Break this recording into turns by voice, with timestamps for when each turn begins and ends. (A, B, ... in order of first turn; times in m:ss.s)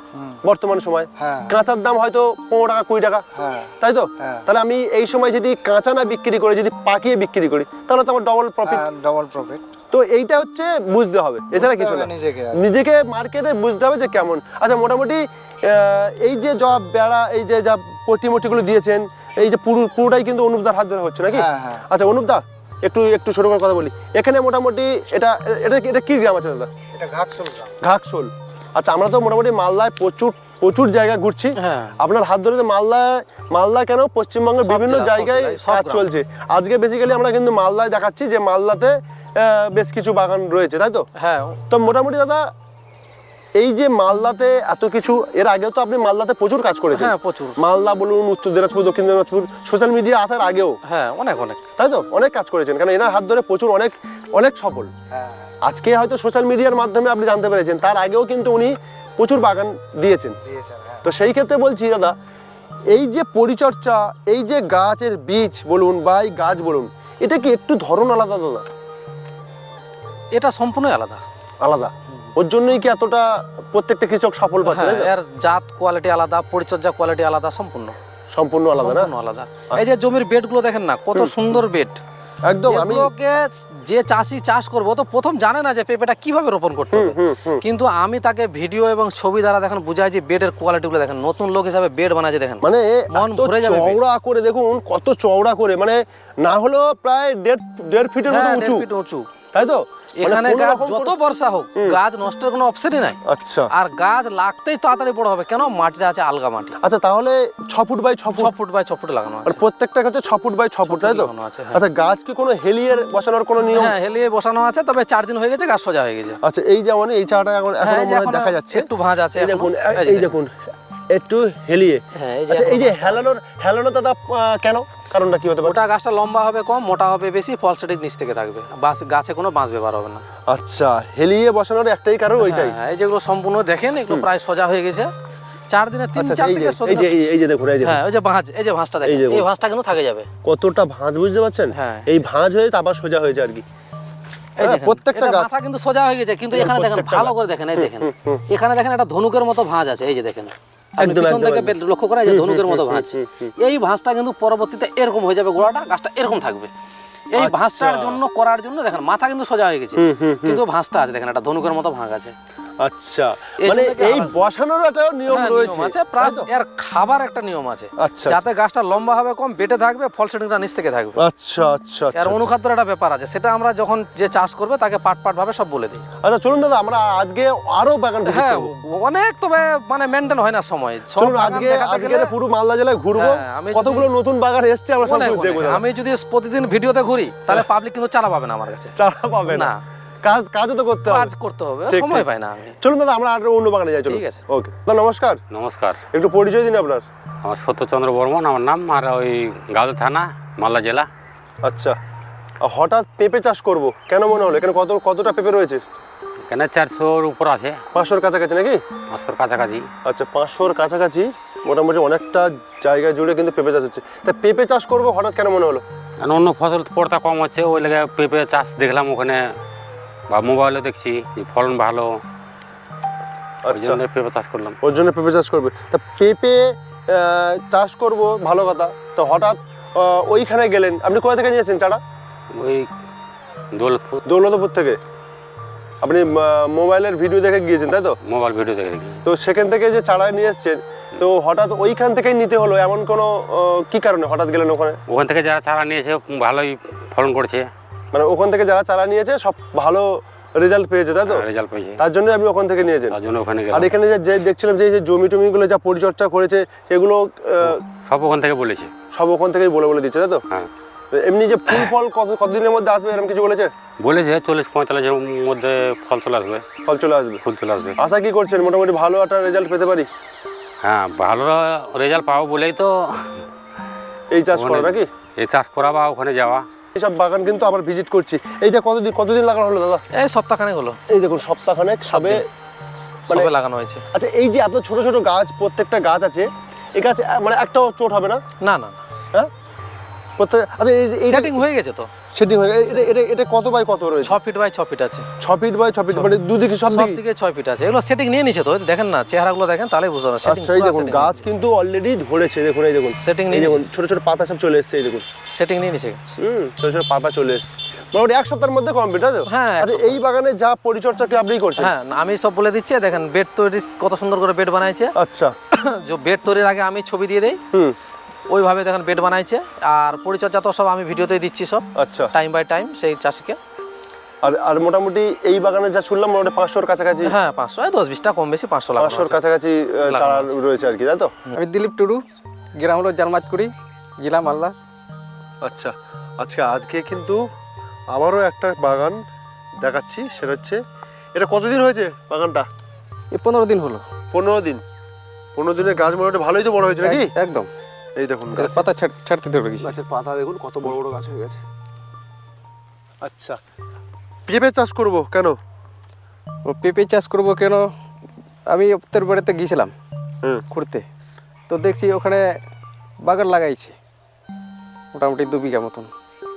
0:00.1-0:00.4 A
0:00.4-0:03.2 B
0:01.2-0:01.6 A
0:03.3-0:04.5 A
0:03.8-0:08.8 B
0:08.6-0:09.6 A
0:09.9-0:26.7 B
0:11.5-0:12.6 A
0:21.3-0:21.8 A
0:26.9-0:27.8 A
0:27.8-0:41.0 B
0:31.6-0:32.0 C
0:34.6-0:36.0 C
0:41.2-0:41.6 C
0:41.7-0:42.5 B
0:43.6-0:50.8 B
0:46.9-0:47.6 C
0:50.8-0:51.6 C
0:51.8-0:54.9 B
0:55.1-0:55.6 A
0:55.6-1:00.4 B
1:00.4-1:01.1 A
1:01.0-1:02.1 B
1:02.9-1:08.6 B
1:10.3-1:11.2 C
1:11.6-1:15.1 B
1:14.6-1:18.0 C
1:18.3-1:19.1 B
1:18.7-1:22.0 C
1:22.5-1:23.1 B
1:22.7-1:34.0 C
1:26.9-1:27.6 B
1:32.6-1:38.8 B
1:38.3-1:39.3 C
1:39.5-1:41.1 B
1:40.2-1:43.2 C
1:43.3-1:43.7 B
1:43.7-1:46.7 C
1:46.8-1:48.5 B
1:48.3-1:49.6 C
1:49.4-1:53.9 B
1:50.8-1:51.8 C
1:53.7-1:56.4 C
1:56.4-2:00.5 B
1:57.8-2:00.3 C
2:01.1-2:05.8 B
2:02.1-2:03.3 C
2:05.6-2:10.2 C
2:10.5-2:12.7 B
2:12.4-2:15.1 C
2:15.7-2:17.3 C
2:16.2-2:18.0 B
2:17.8-2:20.3 C
2:19.0-2:19.5 B
2:20.4-2:23.6 B
2:21.7-2:22.1 C
2:24.6-2:36.7 C
2:24.6-2:25.5 B
2:26.5-2:28.4 B
2:31.0-2:31.7 B
2:32.3-2:33.5 B
2:37.3-2:42.3 C
2:37.4-2:38.2 B
2:40.0-2:40.6 B
2:42.8-2:46.5 B
2:43.6-2:44.3 C
2:45.3-2:51.2 C
2:48.0-2:48.4 B
2:51.2-2:52.5 B
2:52.1-2:56.0 C
2:56.2-2:58.7 B
2:58.3-3:02.3 C
3:01.2-3:05.8 B
3:03.2-3:04.1 C
3:05.0-3:08.9 C
3:09.0-3:11.3 B
3:09.5-3:09.8 C
3:11.1-3:12.8 C
3:11.9-3:12.2 B
3:12.8-3:15.4 B
3:14.1-3:14.4 C
3:15.5-3:16.0 D
3:16.1-3:17.0 B
3:17.4-3:21.1 D
3:21.6-3:22.0 B
3:22.6-3:25.8 B
3:26.5-3:27.7 D
3:27.9-3:28.8 B
3:29.1-3:29.8 D
3:30.0-3:35.8 B
3:36.2-3:39.4 D
3:40.3-3:42.1 D
3:43.6-3:44.0 B
3:43.7-3:44.8 D
3:44.8-3:52.0 B
3:52.5-3:52.8 D
3:53.7-3:54.2 D
3:54.2-3:55.0 B
3:56.0-3:58.2 B
3:58.2-3:59.2 D
3:59.2-4:05.0 B
4:05.1-4:07.7 D
4:08.1-4:11.4 B
4:11.3-4:12.0 D
4:12.0-4:13.2 B
4:13.1-4:14.0 D
4:13.7-4:17.8 B
4:17.6-4:18.9 D
4:19.1-4:20.4 B
4:21.1-4:23.7 B
4:24.0-4:26.6 D
4:26.8-4:27.4 B
4:27.4-4:28.0 D
4:28.0-4:30.1 B
4:30.8-4:33.4 D
4:34.3-4:35.1 B
4:34.5-4:36.6 D
4:36.9-4:40.0 B
4:40.1-4:41.0 C
4:41.1-4:42.4 B
4:42.0-4:42.4 C
4:43.2-4:44.0 C
4:44.1-4:48.4 B
4:48.6-4:49.0 C
4:50.4-4:51.6 B
4:51.2-4:52.1 C
4:52.3-4:54.4 B
4:54.2-4:55.2 C
4:55.4-4:57.2 B
4:56.9-5:01.4 C
5:00.4-5:05.2 B
5:03.0-5:03.8 C
5:05.5-5:06.4 C
5:06.4-5:11.9 B
5:09.5-5:10.2 C
5:11.8-5:15.1 C
5:15.2-5:15.5 B
5:15.7-5:17.6 C
5:18.5-5:23.6 C
5:22.0-5:22.3 B
5:24.4-5:27.3 B
5:27.2-5:29.4 C
5:29.0-5:31.3 B
5:30.0-5:30.5 C
5:31.6-5:32.2 E
5:32.8-5:34.7 E
5:35.6-5:37.4 B
5:38.1-5:39.2 B
5:39.8-5:40.8 B
5:41.3-5:42.7 B
5:43.3-5:44.0 E
5:44.3-5:44.8 B
5:45.6-5:47.3 B
5:47.0-5:47.7 E
5:48.2-5:48.9 B
5:48.6-5:49.9 E
5:49.8-5:51.6 B
5:53.2-5:53.6 B
5:54.5-5:55.6 B
5:56.6-5:57.8 E
5:58.7-5:59.9 E
6:00.7-6:01.0 E
6:01.7-6:02.4 E
6:03.2-6:04.0 E
6:05.1-6:06.1 E